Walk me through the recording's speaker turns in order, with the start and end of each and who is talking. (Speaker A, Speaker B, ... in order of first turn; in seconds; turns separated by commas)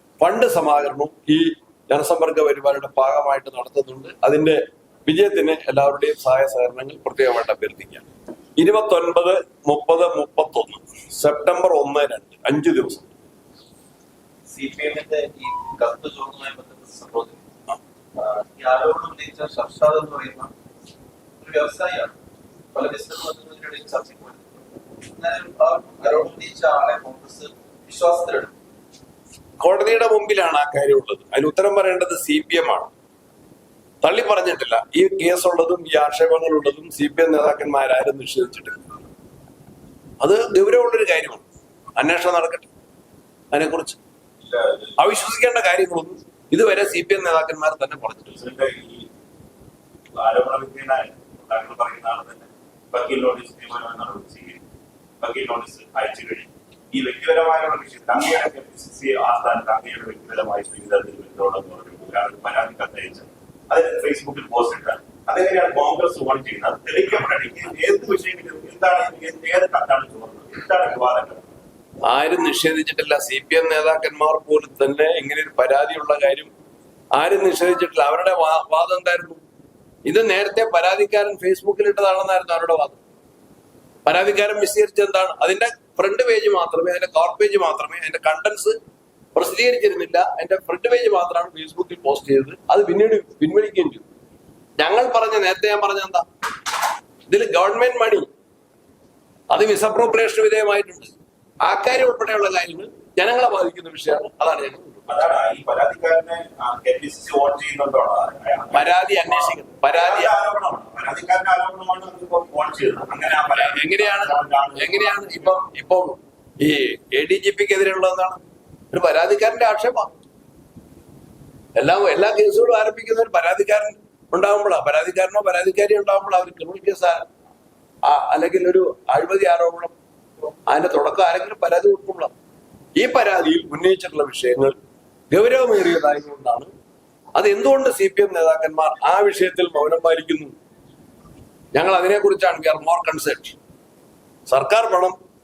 Speaker A: 0.2-8.1, Speaker A: 8.6-13.1, Speaker B: 14.5-17.4, Speaker B: 18.2-20.5, Speaker B: 21.4-22.1, Speaker B: 22.7-28.5, Speaker A: 29.6-32.9, Speaker A: 34.0-38.8, Speaker A: 40.2-42.7, Speaker A: 43.5-44.0, Speaker C: 44.5-44.9, Speaker A: 45.0-48.4, Speaker C: 48.4-49.1, Speaker C: 50.1-54.6, Speaker C: 55.2-71.5, Speaker A: 72.0-76.5, Speaker A: 77.1-79.4, Speaker A: 80.1-83.0, Speaker A: 84.0-88.8, Speaker A: 89.3-94.0, Speaker A: 94.8-96.3, Speaker A: 97.3-98.3, Speaker A: 99.5-101.1, Speaker A: 101.6-105.2, Speaker C: 105.1-115.5, Speaker A: 108.7-110.3, Speaker A: 113.5-118.4, Speaker A: 118.9-120.1, Speaker A: 121.8-127.2, Speaker A: 128.1-129.9, Speaker A: 130.7-132.3, Speaker A: 133.0-134.7, Speaker A: 135.3-136.7, Speaker A: 137.4-140.6, Speaker A: 141.7-143.6, Speaker A: 144.5-145.2